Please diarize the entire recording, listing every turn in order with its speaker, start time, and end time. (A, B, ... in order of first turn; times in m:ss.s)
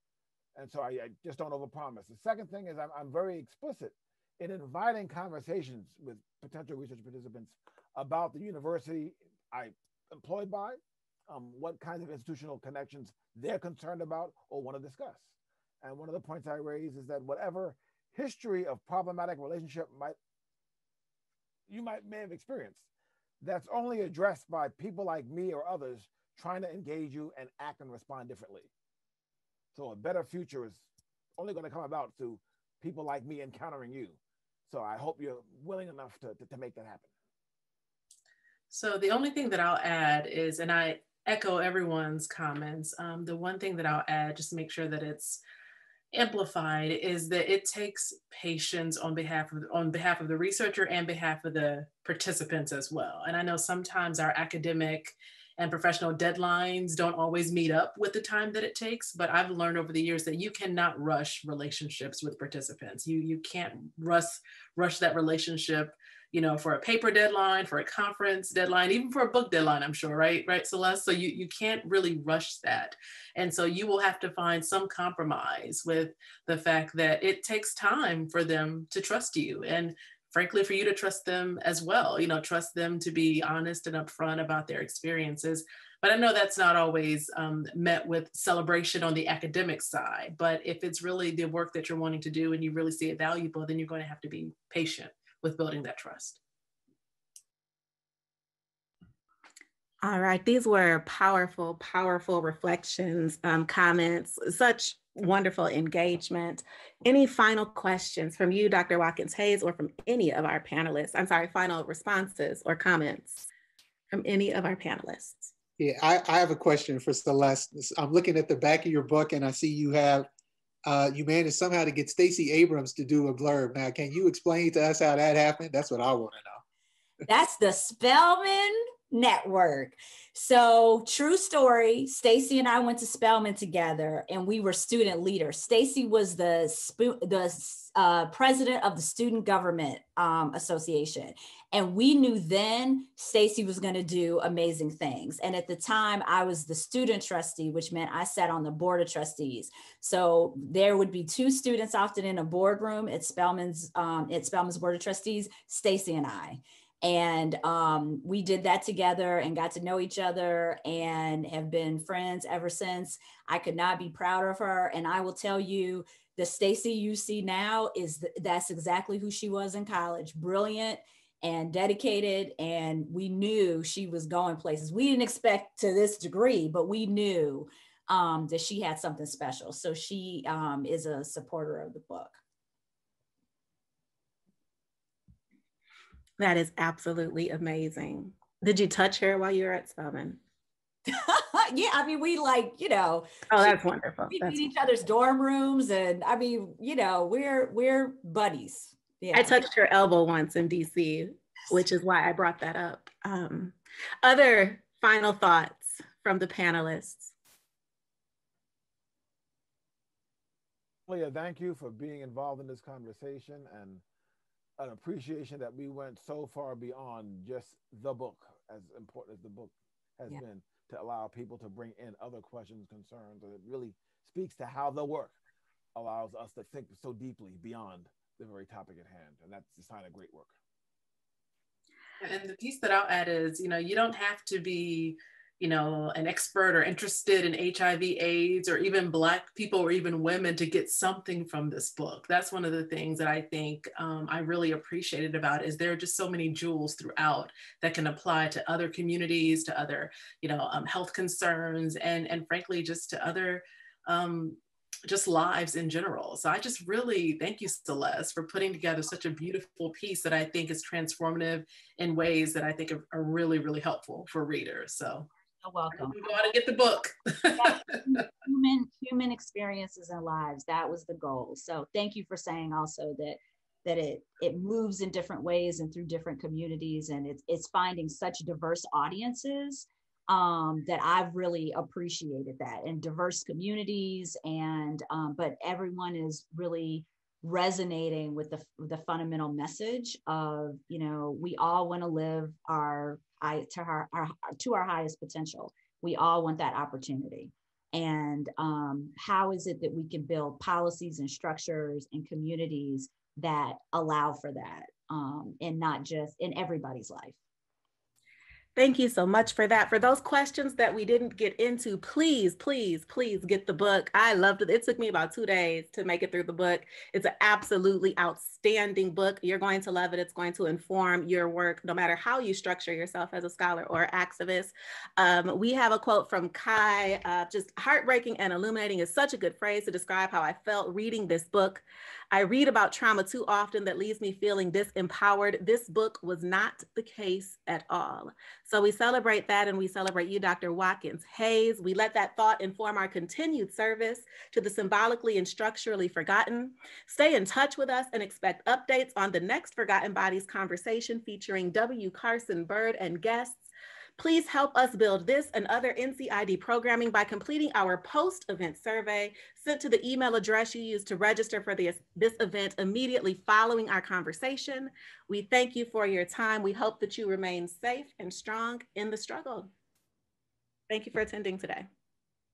0:00.6-0:15.3 A
0:15.8-0:20.2 A
0:21.7-0:22.8 A
0:23.4-0:28.7 A
0:29.8-0:30.9 A
0:31.4-0:37.1 A
0:38.7-0:45.4 B
0:46.1-1:36.4 B
1:40.0-1:53.5 C
1:54.1-1:55.5 C
1:55.8-2:00.3 D
2:00.9-2:06.6 D
2:07.3-3:02.4 E
3:06.4-3:10.4 C
3:11.1-3:13.8 E
3:13.5-3:14.6 C
3:14.3-3:19.6 E
3:19.3-3:27.3 C
3:31.1-3:34.0 A
3:34.8-3:45.4 A
3:46.0-3:50.5 A
3:52.2-4:25.3 B
4:25.6-4:26.4 E
4:25.9-4:28.0 B
4:27.6-5:07.4 E
5:08.8-6:09.7 C
6:10.9-6:11.9 C